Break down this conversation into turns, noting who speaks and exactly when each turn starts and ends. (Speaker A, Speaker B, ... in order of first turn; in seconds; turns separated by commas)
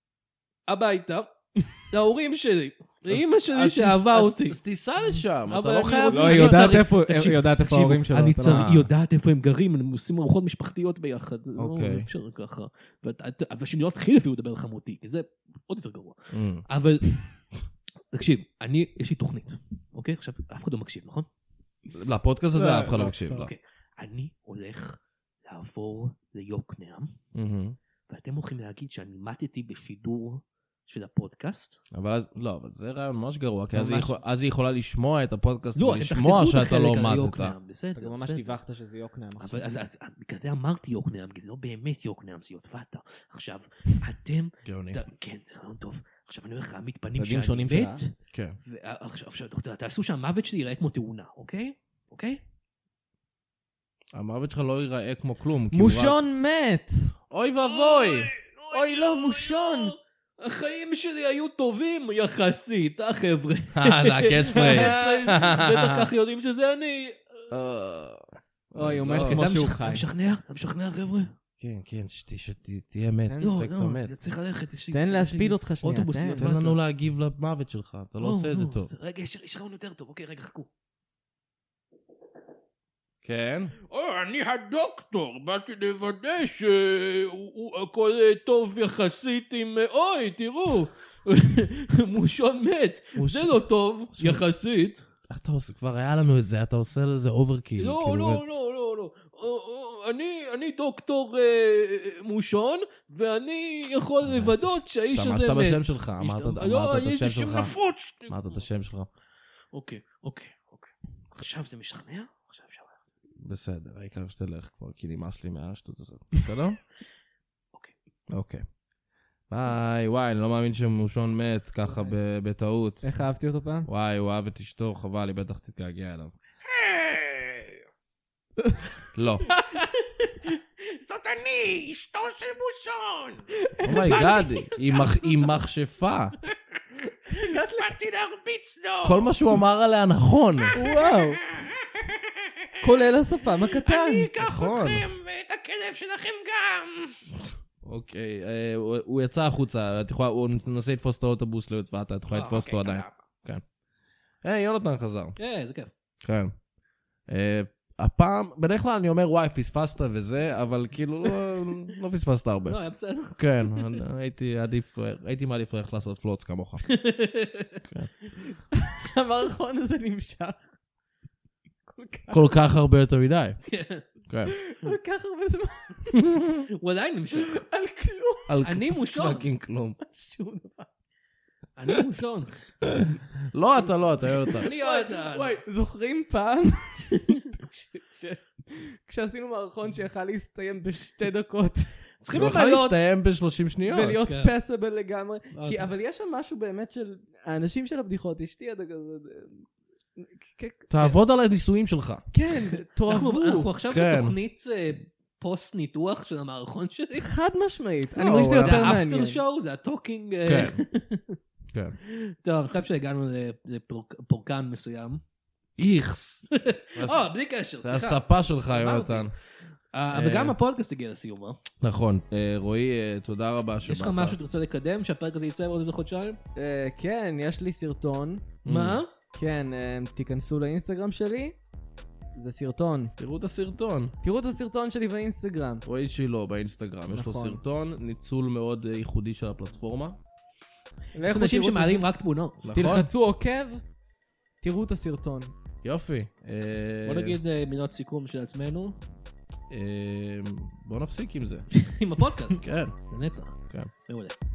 Speaker A: 0.7-4.6, Speaker B: 3.1-6.8, Speaker A: 5.5-17.2, Speaker C: 6.1-8.4, Speaker B: 8.4-8.9, Speaker B: 11.6-12.1, Speaker B: 16.3-16.6, Speaker A: 18.1-21.3, Speaker B: 21.9-23.5, Speaker C: 22.6-23.1, Speaker A: 22.9-27.1, Speaker B: 27.3-27.8, Speaker A: 28.1-31.8, Speaker B: 31.9-37.5, Speaker A: 33.7-34.1, Speaker A: 35.8-38.6, Speaker C: 38.0-39.8, Speaker A: 39.4-48.1, Speaker B: 44.6-45.0, Speaker C: 47.1-48.1, Speaker B: 48.3-48.6, Speaker A: 48.6-52.4, Speaker B: 54.1-56.2, Speaker C: 55.7-57.1, Speaker B: 57.3-58.3, Speaker A: 57.6-67.5, Speaker C: 58.7-60.0, Speaker B: 63.8-66.1, Speaker C: 64.5-65.3, Speaker B: 67.5-69.5, Speaker C: 68.8-70.1, Speaker A: 69.1-71.3, Speaker B: 71.6-74.1, Speaker C: 73.2-73.6, Speaker A: 73.4-76.8, Speaker C: 74.9-76.5, Speaker B: 76.4-78.9, Speaker A: 78.2-80.7, Speaker B: 83.2-83.8, Speaker A: 83.9-95.0, Speaker B: 93.2-93.6, Speaker B: 94.1-94.4, Speaker B: 95.3-98.4, Speaker A: 97.8-108.6, Speaker B: 104.2-107.7, Speaker B: 108.3-109.1, Speaker A: 109.7-113.0, Speaker B: 113.4-116.8, Speaker B: 118.3-118.6, Speaker B: 119.5-123.2, Speaker C: 123.0-123.9, Speaker B: 123.9-126.3, Speaker A: 126.7-127.8, Speaker C: 128.6-128.9, Speaker B: 129.1-129.5, Speaker C: 129.5-129.8, Speaker A: 129.7-135.5, Speaker C: 133.5-134.5, Speaker B: 133.8-136.4, Speaker C: 137.3-137.9, Speaker A: 137.3-139.3, Speaker B: 139.0-140.7, Speaker A: 140.6-142.7, Speaker C: 140.8-141.4, Speaker C: 142.8-144.3, Speaker A: 143.8-147.3, Speaker B: 144.4-145.1, Speaker B: 147.8-153.6, Speaker A: 152.3-153.2, Speaker B: 154.4-155.4, Speaker A: 155.4-155.9, Speaker B: 156.2-156.5, Speaker B: 157.3-162.8, Speaker A: 162.7-164.0, Speaker B: 163.3-166.9, Speaker A: 166.9-167.8, Speaker C: 168.8-170.7, Speaker C: 171.9-172.6, Speaker B: 172.3-173.6, Speaker A: 173.7-174.1, Speaker B: 174.3-174.6, Speaker C: 174.5-176.3, Speaker B: 176.1-176.7, Speaker A: 176.8-177.6, Speaker C: 177.3-178.5, Speaker B: 178.5-180.0, Speaker A: 178.6-179.5, Speaker C: 180.0-180.9, Speaker A: 181.8-182.7, Speaker B: 183.5-184.7, Speaker A: 184.6-185.6, Speaker C: 184.8-191.9, Speaker A: 192.2-193.0, Speaker B: 192.3-194.2, Speaker C: 193.8-201.2, Speaker A: 194.2-194.5, Speaker A: 195.6-195.8, Speaker B: 200.9-202.2, Speaker C: 202.3-203.7, Speaker A: 203.1-207.3, Speaker B: 203.9-204.3, Speaker C: 207.2-209.4, Speaker B: 208.2-208.8, Speaker A: 208.3-211.4, Speaker B: 210.4-210.8, Speaker B: 211.7-212.0, Speaker A: 212.1-215.2, Speaker B: 215.8-217.3, Speaker A: 216.5-219.3, Speaker B: 217.8-219.3, Speaker A: 219.9-221.6, Speaker B: 220.1-220.6, Speaker B: 221.8-224.4, Speaker A: 223.8-226.4, Speaker C: 226.6-228.6, Speaker B: 228.7-229.0, Speaker A: 228.7-229.1, Speaker C: 229.3-231.6, Speaker C: 232.3-233.2, Speaker B: 233.2-234.1, Speaker C: 234.2-235.8, Speaker B: 235.8-240.2, Speaker C: 237.1-237.6, Speaker C: 241.2-242.1, Speaker A: 241.3-242.7, Speaker B: 242.6-243.1, Speaker C: 242.7-243.8, Speaker C: 244.6-245.5, Speaker B: 245.8-247.4, Speaker A: 247.0-249.0, Speaker B: 249.7-251.7, Speaker A: 251.7-254.3, Speaker B: 252.6-253.0